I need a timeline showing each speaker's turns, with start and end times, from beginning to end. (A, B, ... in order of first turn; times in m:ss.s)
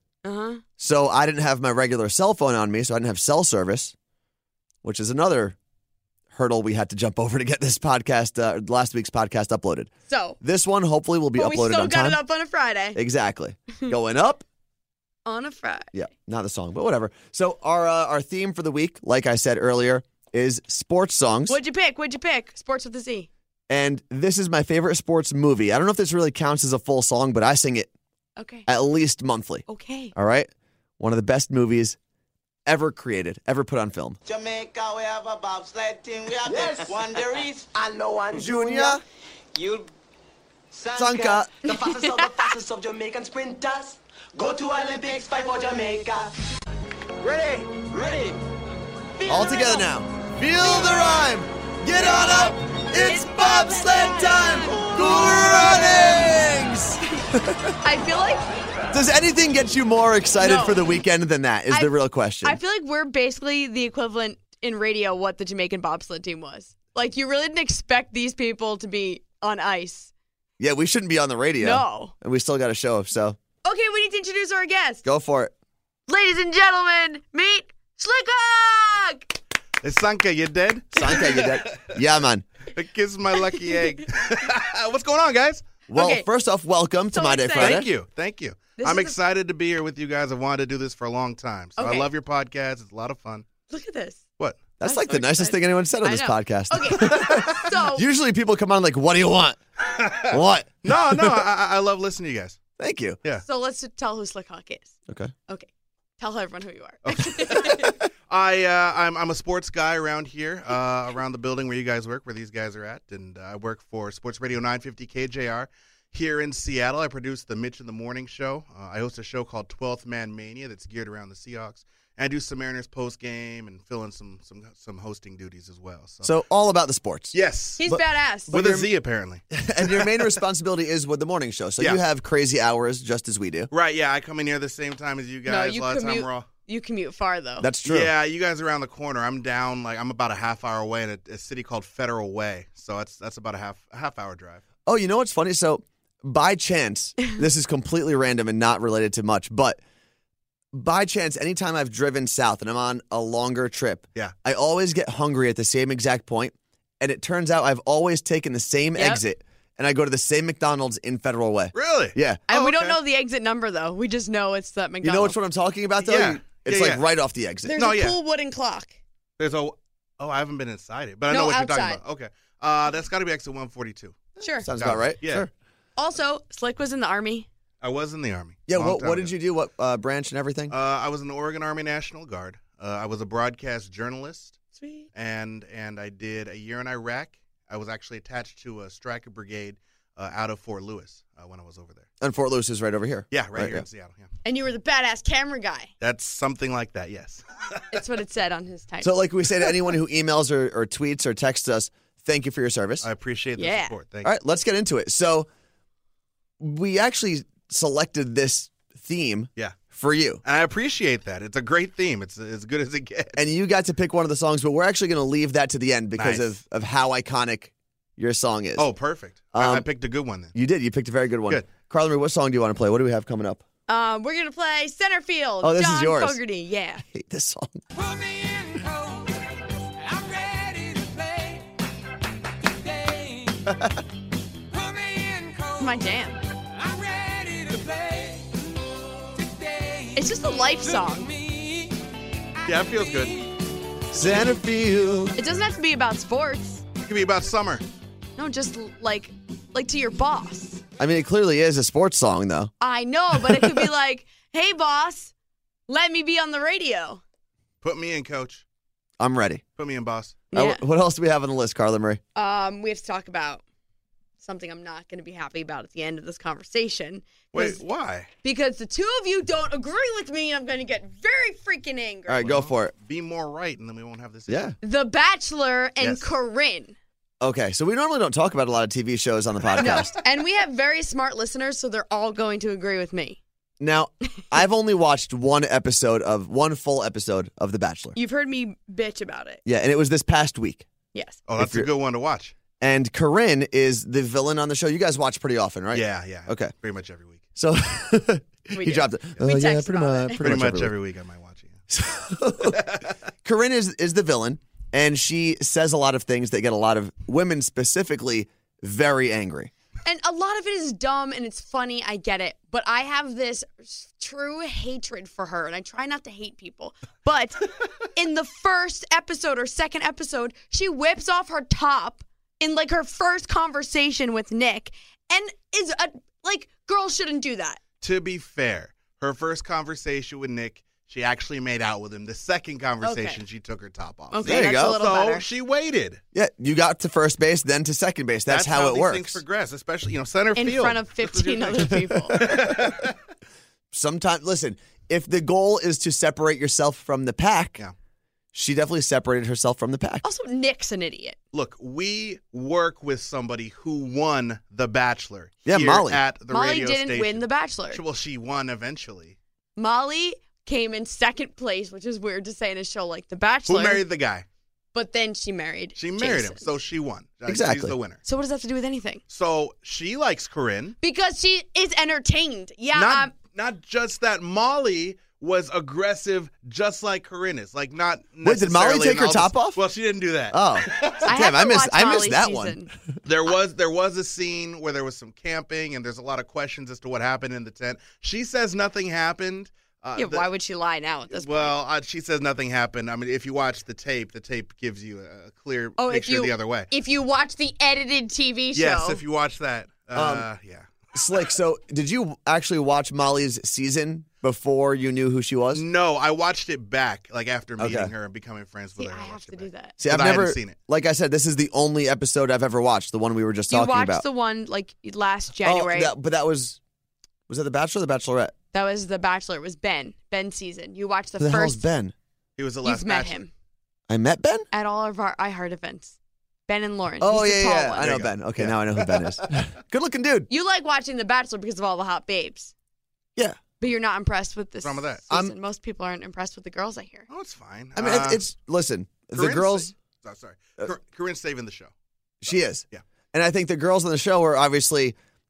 0:00.2-0:00.6 A
0:00.8-0:03.9 B
0:04.8-0:05.6 B
0:06.3-0:09.9 B
0:10.1-0:10.4 A
0:10.4-0:12.2 B
0:11.4-0:13.0 A
0:13.0-0:14.4 B
0:15.2-0:15.9 A
0:15.9-0:21.6 B
0:21.5-0:23.3 A
0:23.7-0:27.9 B
0:28.4-0:28.7 A
0:28.7-0:32.0 B
0:29.7-0:30.1 A
0:32.7-0:34.2 B
0:34.3-0:39.0 C
0:38.4-0:39.0 B
0:39.6-0:39.9 C
0:40.7-0:46.3 C
0:41.0-0:41.5 B
0:41.8-0:42.3 A
0:47.2-0:48.4 C
0:49.2-0:49.7 C
0:49.3-0:57.8 B
0:51.9-0:56.4 A
0:57.8-0:58.4 A
0:58.9-1:02.6 B
1:00.4-1:01.0 A
1:01.7-1:10.1 A
1:10.6-1:13.4 B
1:11.6-1:12.1 A
1:13.6-1:15.0 A
1:15.0-1:15.5 B
1:16.1-1:19.4 A
1:19.8-1:22.0 D
1:21.0-1:22.4 B
1:22.7-1:25.7 D
1:23.6-1:24.0 A
1:25.9-1:27.9 B
1:25.9-1:26.3 A
1:27.1-1:27.9 A
1:27.6-1:33.5 D
1:28.8-1:29.2 A
1:31.8-1:32.1 A
1:33.7-1:34.2 A
1:34.4-1:35.3 D
1:34.8-1:39.6 B
1:34.9-1:38.1 A
1:39.8-1:42.6 D
1:40.3-1:41.4 B
1:42.8-1:43.2 B
1:43.4-1:45.0 A
1:45.1-1:45.3 B
1:45.5-1:48.0 A
1:47.1-2:06.3 D
2:06.2-2:08.9 B
2:07.3-2:07.8 D
2:07.8-2:08.5 A
2:08.5-2:10.3 D
2:09.5-2:13.7 B
2:13.7-2:16.5 D
2:15.5-2:17.7 A
2:17.6-2:18.1 B
2:17.8-2:24.6 D
2:24.9-2:29.8 B
2:30.7-2:42.4 B
2:39.0-2:39.2 A
2:41.7-2:43.0 D
2:42.5-2:45.4 A
2:45.0-2:47.8 B
2:46.0-2:47.0 D
2:47.6-2:49.0 A
2:47.8-2:48.2 D
2:49.4-2:55.5 D
2:51.3-2:52.0 A
2:54.4-2:54.7 A
2:54.6-2:55.5 B
2:56.0-2:57.5 A
2:57.8-2:59.3 D
2:58.7-3:00.8 B
3:00.7-3:04.6 D
3:04.8-3:05.1 A
3:05.2-3:12.1 D
3:12.2-3:13.8 B
3:13.3-3:14.3 D
3:14.4-3:15.9 A
3:16.0-3:17.8 D
3:17.9-3:19.3 A
3:19.0-3:23.1 B
3:23.0-3:24.3 D
3:23.6-3:23.9 A
3:24.2-3:25.5 B
3:26.6-3:30.4 B
3:30.4-3:33.4 D
3:33.4-3:38.9 B
3:36.2-3:36.5 D
3:38.8-3:40.5 D
3:39.5-3:39.9 B
3:40.5-3:43.6 B
3:43.9-3:47.0 A
3:45.6-3:46.4 B
3:47.0-3:47.8 B
3:47.9-3:51.7 E
3:52.6-3:53.7 E
3:54.7-3:56.0 E
3:55.8-3:56.4 A
3:56.8-3:58.5 E
3:59.4-4:02.0 E
4:00.2-4:01.3 A
4:02.6-4:03.6 E
4:02.6-4:03.4 D
4:04.1-4:05.4 B
4:05.4-4:06.8 A
4:07.0-4:07.8 D
4:08.4-4:10.8 A
4:11.0-4:12.7 B
4:12.8-4:15.3 A
4:13.3-4:13.9 B
4:15.9-4:17.2 A
4:17.8-4:18.6 D
4:19.2-4:19.6 B
4:19.8-4:20.4 D
4:20.5-4:20.8 A
4:20.5-4:22.2 B
4:22.4-4:23.6 A
4:24.4-4:27.8 A
4:27.5-4:28.3 D
4:28.4-4:32.6 A
4:32.3-4:32.9 B
4:32.4-4:34.8 D
4:34.5-4:34.8 B
4:34.8-4:37.0 A
4:36.0-4:36.3 D
4:37.4-4:40.1 B
4:39.8-4:43.4 A
4:43.8-4:48.2 B
4:48.2-4:49.6 A
4:49.7-4:50.9 B
4:51.1-4:51.4 A
4:51.5-4:52.5 D
4:51.6-4:51.9 B
4:52.8-4:56.7 B
4:55.9-4:57.4 D
4:57.6-5:00.9 B
4:58.7-5:00.4 A
5:00.4-5:01.8 D
5:01.9-5:02.9 B
5:02.6-5:03.1 D
5:03.4-5:09.7 B
5:10.0-5:27.8 A
5:28.0-5:36.2 D
5:33.0-5:33.4 A
5:34.3-5:35.4 A
5:34.4-5:35.0 B
5:36.3-5:39.4 B
5:38.5-5:43.2 D
5:40.6-5:42.4 A
5:42.3-5:42.9 B
5:43.9-5:47.8 B
5:48.5-5:50.2 B
5:50.2-5:51.4 A
5:51.5-5:59.4 D
5:55.7-5:56.2 B
5:56.5-5:58.0 A
5:59.8-6:04.0 A
6:03.7-6:04.4 D
6:04.9-6:06.7 A
6:06.0-6:08.2 D
6:07.5-6:07.9 B
6:08.2-6:09.2 A
6:09.3-6:11.0 D
6:11.0-6:13.3 A
6:12.9-6:21.3 D
6:18.4-6:19.8 B
6:20.5-6:22.8 B
6:21.2-6:22.9 A
6:23.2-6:30.5 D
6:30.2-6:31.8 A
6:31.3-6:36.9 D
6:36.0-6:39.2 A
6:38.8-6:40.9 D
6:40.1-6:40.5 B
6:41.1-6:45.8 B
6:45.7-6:50.8 D
6:47.8-6:48.1 B
6:49.0-6:50.0 A
6:50.0-6:54.2 B
6:53.7-6:56.1 A
6:55.6-6:56.8 B
6:57.5-6:58.5 B
6:58.7-7:01.8 A
7:01.4-7:02.1 B
7:02.6-7:03.4 D
7:02.8-7:03.5 A
7:04.1-7:04.7 B
7:04.7-7:06.2 A
7:06.7-7:08.1 A
7:07.2-7:10.5 B
7:08.0-7:09.6 D
7:10.5-7:12.7 A
7:13.8-7:17.3 A
7:14.8-7:15.2 D
7:17.3-7:18.4 D
7:18.0-7:19.9 B
7:19.3-7:21.9 D
7:22.4-7:25.2 B